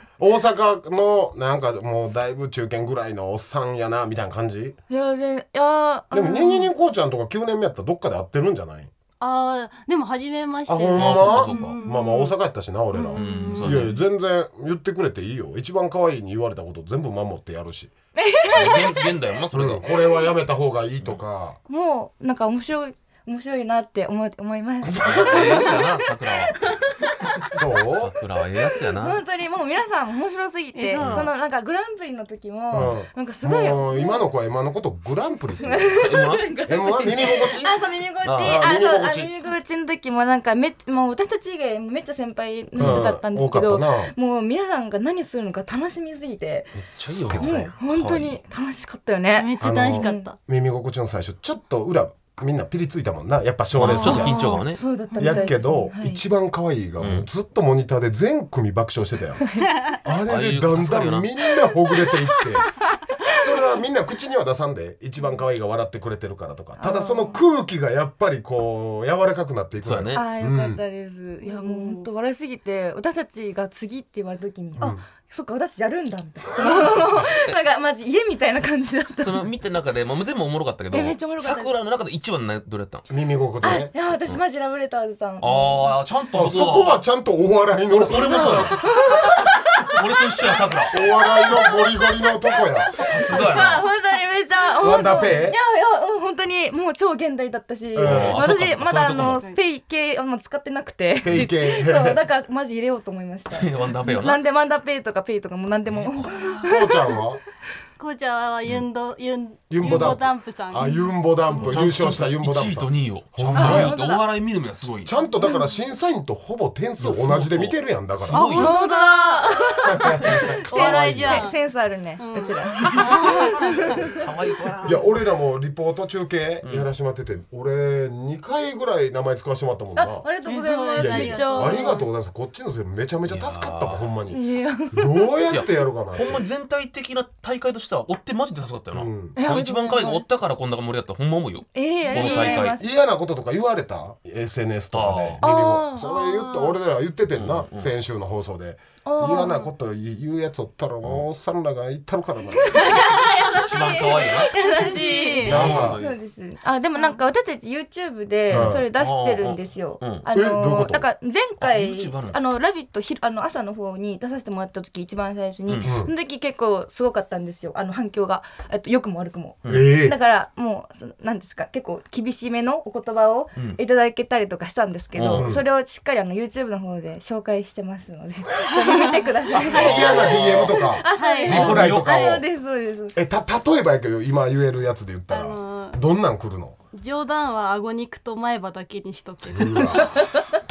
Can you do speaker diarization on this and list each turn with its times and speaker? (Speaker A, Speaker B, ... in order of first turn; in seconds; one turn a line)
Speaker A: 0.2-4.8
Speaker B: 4.9-6.7
Speaker A: 6.1-8.9
Speaker C: 9.2-12.3
Speaker A: 10.7-17.9
Speaker D: 11.0-11.8
Speaker C: 13.0-13.9
Speaker D: 13.1-14.0
Speaker B: 18.2-19.0
Speaker D: 18.5-19.9
Speaker A: 19.5-21.6
Speaker B: 21.7-25.8
Speaker A: 24.9-25.8
Speaker D: 25.1-26.6
Speaker A: 27.5-28.1
Speaker D: 27.9-29.2
Speaker B: 29.0-34.2
Speaker C: 30.7-31.3
Speaker D: 31.0-31.3
Speaker A: 32.7-36.0
Speaker B: 35.6-46.8
Speaker D: 36.0-36.5
Speaker A: 36.7-37.8
Speaker D: 38.2-38.6
Speaker A: 38.4-39.3
Speaker A: 42.8-44.1
Speaker D: 42.8-43.1
Speaker A: 46.8-47.7
Speaker D: 47.0-48.4
Speaker B: 47.4-50.3
Speaker C: 49.4-50.4
Speaker A: 49.6-54.5
Speaker D: 53.8-54.8
Speaker B: 53.8-56.2
Speaker C: 55.1-55.5
Speaker A: 55.1-62.7
Speaker D: 57.0-57.3
Speaker D: 60.3-61.3
Speaker A: 63.3-70.8
Speaker B: 66.8-67.4
Speaker D: 69.8-70.2
Speaker B: 70.1-79.5
Speaker C: 71.4-72.1
Speaker A: 74.8-75.0
Speaker D: 77.3-77.6
Speaker D: 79.2-83.1
Speaker B: 80.9-81.8
Speaker A: 83.1-83.9
Speaker B: 83.6-86.0
Speaker D: 85.4-87.0
Speaker A: 86.3-88.8
Speaker D: 87.9-91.0
Speaker B: 88.8-89.9
Speaker A: 90.9-93.3
Speaker B: 91.0-91.8
Speaker B: 93.0-107.2
Speaker D: 93.0-93.9
Speaker A: 94.8-95.6
Speaker A: 98.0-98.5
Speaker D: 98.0-99.4
Speaker C: 99.2-99.6
Speaker A: 101.2-102.2
Speaker D: 103.5-104.4
Speaker D: 105.9-106.7
Speaker A: 106.6-107.4
Speaker C: 108.0-111.1
Speaker A: 109.7-113.9
Speaker D: 109.8-110.2
Speaker D: 111.5-115.1
Speaker B: 113.5-114.2
Speaker A: 115.0-118.6
Speaker D: 117.0-118.7
Speaker C: 118.3-121.6
Speaker B: 118.6-123.8
Speaker A: 119.8-121.5
Speaker C: 122.2-124.0
Speaker D: 124.1-125.1
Speaker A: 124.8-130.3
Speaker D: 126.6-126.9
Speaker B: 129.9-132.0
Speaker C: 130.4-132.1
Speaker A: 130.9-136.4
Speaker D: 133.3-134.1
Speaker B: 134.3-135.3
Speaker D: 135.5-142.8
Speaker A: 138.9-139.4
Speaker B: 139.4-140.2
Speaker B: 141.7-142.8
Speaker C: 142.1-142.4
Speaker A: 142.2-153.1
Speaker D: 144.9-145.4
Speaker B: 145.4-146.2
Speaker C: 146.0-146.7
Speaker D: 147.3-147.9
Speaker B: 149.1-149.7
Speaker B: 152.7-180.2
Speaker D: 153.4-154.5
Speaker C: 154.3-155.8
Speaker A: 155.4-156.0
Speaker D: 155.4-156.2
Speaker C: 156.9-157.2
Speaker D: 158.5-160.3
Speaker A: 158.5-158.9
Speaker A: 160.3-161.1
Speaker D: 161.6-162.4
Speaker A: 165.8-166.1
Speaker D: 169.6-169.9
Speaker A: 169.7-170.2
Speaker D: 175.2-175.5
Speaker A: 175.3-175.7
Speaker C: 178.8-179.2
Speaker A: 179.5-182.4
Speaker D: 179.6-180.8
Speaker C: 179.7-180.2
Speaker B: 180.8-183.2
Speaker C: 181.1-181.9
Speaker D: 181.5-182.1
Speaker A: 183.2-186.8
Speaker C: 185.3-186.0
Speaker C: 186.9-190.3
Speaker A: 189.5-190.1